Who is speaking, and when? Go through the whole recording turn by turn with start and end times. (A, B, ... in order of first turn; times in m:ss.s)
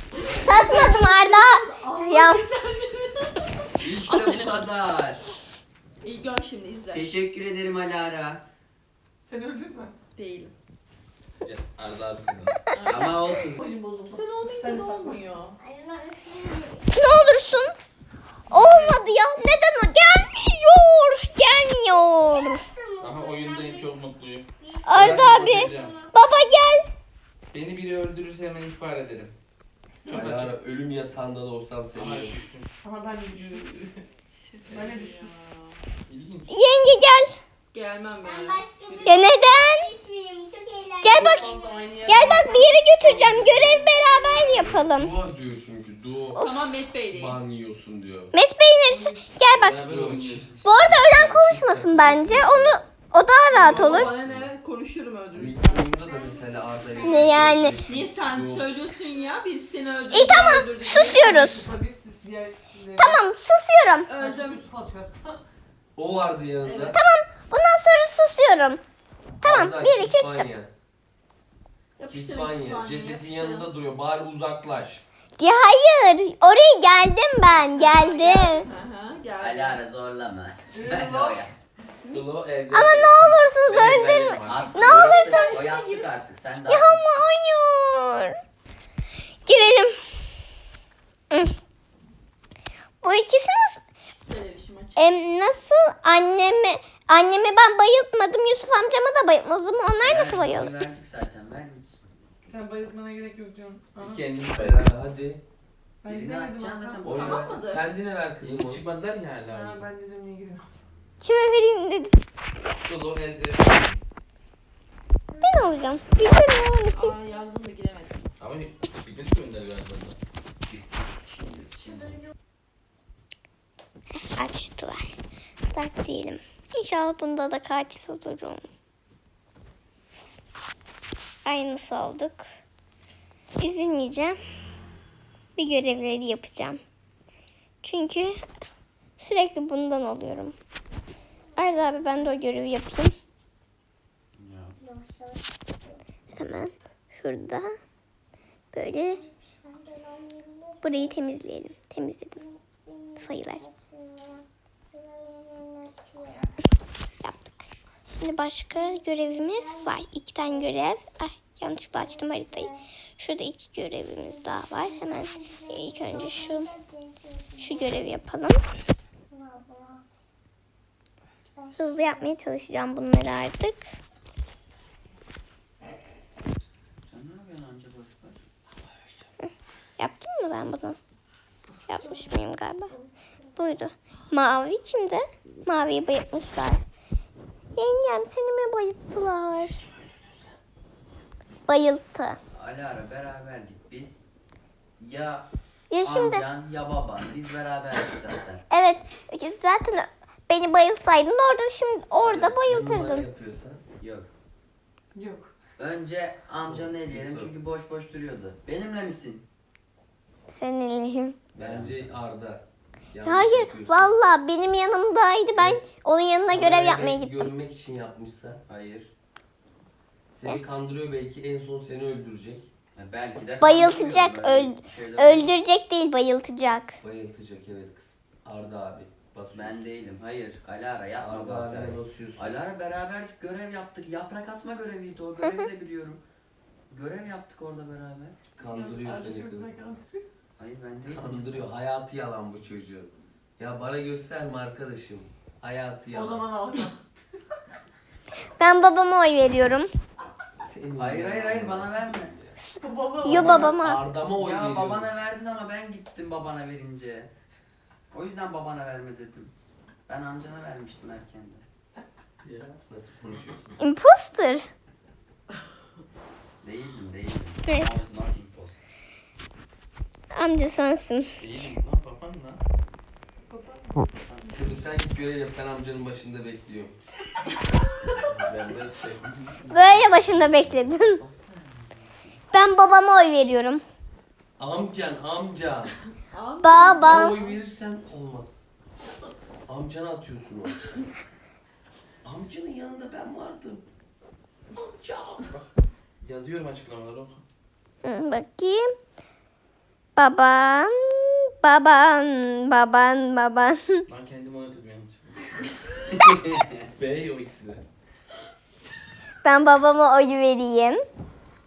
0:00.3-0:03.5 A
0:00.3-0:02.4 B
0:00.4-0:02.4 C
0:03.8-0:05.2 D
0:04.0-0:04.6 E
0:06.0-0:07.1 A
0:06.9-0:08.4 D
0:09.2-0:09.9 B
0:10.2-0:10.6 A
0:11.4-0:12.7 E
0:12.7-0:13.4 A
0:12.8-0:13.6 D
0:13.6-0:15.2 B
0:14.1-0:15.6 A
0:15.6-0:16.9 F
0:16.9-0:17.8 C
0:18.5-0:22.6 C
0:18.5-0:19.0 E
0:22.2-0:26.9 F
0:23.0-0:26.0 E
0:24.9-0:26.8 C
0:27.5-0:29.3 E
0:30.0-0:30.5 E
0:30.1-0:32.4 G
0:31.9-0:32.7 E
0:32.8-0:34.0 B
0:34.4-0:35.8 A
0:34.7-0:35.3 B
0:36.1-0:36.6 E
0:36.5-0:37.4 C
0:37.7-0:39.2 A
0:38.2-0:43.3 F
0:39.0-0:39.9 C
0:41.0-0:41.6 C
0:41.1-0:43.9 E
0:42.1-0:45.1 C
0:43.8-0:44.8 F
0:44.6-0:46.4 G
0:46.4-0:47.4 A
0:47.1-0:48.3 G
0:48.3-0:49.8 C
0:48.9-0:49.2 B
0:49.6-0:50.6 E
0:49.6-0:52.8 G
0:50.6-0:54.1 C
0:53.5-0:54.5 G
0:53.6-0:55.9 A
0:55.3-0:58.6 G
0:56.1-0:56.5 F
0:57.0-0:57.3 F
0:57.0-0:57.8 C
0:57.8-1:01.6 A
1:00.1-1:01.6 C
1:01.0-1:03.2 B
1:03.0-1:04.1 C
1:04.1-1:04.6 A
1:04.1-1:05.4 B
1:06.0-1:07.0 G
1:06.6-1:07.0 A
1:06.9-1:08.8 C
1:09.4-1:10.5 C
1:09.4-1:10.7 G
1:12.0-1:13.7 A
1:12.1-1:15.0 G
1:15.4-1:18.7 C
1:17.7-1:19.8 A
1:19.4-1:21.6 D
1:20.7-1:21.5 B
1:22.1-1:24.6 E
1:22.7-1:25.6 C
1:23.2-1:24.9 G
1:24.5-1:27.0 D
1:24.9-1:26.1 A
1:26.7-1:28.4 C
1:29.5-1:30.0 C
1:33.0-1:33.8 C
1:34.1-1:35.0 A
1:35.0-1:40.7 C
1:40.0-1:42.0 D
1:42.5-1:44.4 B
1:44.0-1:45.4 G
1:44.2-1:44.9 E
1:46.0-1:47.4 B
1:46.0-1:47.4 D
1:47.0-1:48.8 G
1:47.1-1:47.9 A
1:48.4-1:49.8 E
1:49.5-1:50.6 B
1:51.2-1:52.1 C
1:52.8-1:54.0 E
1:55.3-1:55.9 F
1:55.4-1:57.2 C
1:56.9-1:58.2 A
1:58.4-2:00.2 E
2:00.6-2:02.2 D
2:04.3-2:05.2 C
2:05.7-2:08.6 C
2:11.4-2:12.5 C
2:13.6-2:14.4 C
2:15.6-2:16.8 C
2:17.8-2:18.4 C
2:19.2-2:20.6 C
2:21.6-2:22.2 F
2:21.6-2:23.1 C
2:24.4-2:24.8 D
2:24.8-2:26.0 F
2:26.4-2:27.7 C
2:28.7-2:29.2 C
2:29.0-2:31.4 F
2:30.8-2:32.4 C
2:32.3-2:36.6 F
2:33.2-2:33.6 C
2:37.2-2:37.6 C
2:38.2-2:46.7 C
2:38.8-2:40.0 F
2:41.9-2:42.8 F
2:44.2-2:48.2 F
2:47.6-2:48.6 C
2:49.3-2:50.1 F
2:51.5-2:52.4 F
2:51.8-2:53.9 C
2:57.1-2:58.4 D
2:59.4-3:01.0 C
3:01.9-3:02.9 C
3:01.9-3:03.8 F
3:03.6-3:06.8 C
3:07.8-3:09.8 C
3:11.7-3:12.4 C
3:12.6-3:14.2 D
3:15.0-3:15.5 D
3:15.9-3:16.4 C
3:16.0-3:18.6 D
3:18.7-3:23.3 C
3:22.2-3:23.8 G
3:24.0-3:24.3 D
3:25.2-3:25.5 B
3:25.8-3:29.4 D
3:26.6-3:27.6 G
3:30.5-3:31.4 C
3:31.6-3:32.1 D
3:31.6-3:34.2 G
3:33.2-3:37.5 C
3:35.6-3:35.8 G
3:36.5-3:38.6 G
3:38.7-3:39.1 D
3:40.3-3:42.7 G
3:43.0-3:45.6 D
3:43.6-3:47.0 C
3:47.0-3:49.9 G
3:49.5-3:56.2 D
3:51.2-3:52.5 G
3:56.9-3:58.4 D
3:58.6-3:59.7 G
3:58.6-4:00.0 A
3:59.0-3:59.5 B
4:00.6-4:01.7 D
4:01.1-4:06.5 G
4:06.1-4:07.0 B
4:08.6-4:09.9 C
4:10.6-4:12.6 G
4:11.0-4:12.3 D
4:12.6-4:14.0 C
4:12.8-4:13.8 B
4:13.3-4:15.1 G
4:14.3-4:17.3 D
4:18.1-4:19.5 D
4:20.1-4:21.7 D
4:22.4-4:22.8 E
4:22.9-4:23.8 G
4:23.8-4:24.7 C
4:26.6-4:28.8 D
4:30.3-4:31.3 C
4:31.4-4:32.6 E
4:33.5-4:34.9 B
4:34.5-4:37.0 G
4:38.3-4:39.7 E
4:38.4-4:39.0 G
4:39.7-4:41.2 C
4:39.9-4:40.4 G
4:40.3-4:42.4 D
4:42.5-4:43.8 C
4:44.6-4:45.9 G
4:46.3-4:47.6 A
4:46.6-4:47.4 C
4:46.8-4:48.6 G
4:49.7-4:50.8 G
4:52.2-4:53.8 G
4:55.4-4:55.7 E
4:56.2-4:57.4 E
4:58.0-4:58.9 C
5:00.2-5:04.0 C
5:04.1-5:05.4 E
5:06.2-5:06.9 D
5:07.0-5:07.8 E
5:09.4-5:11.0 C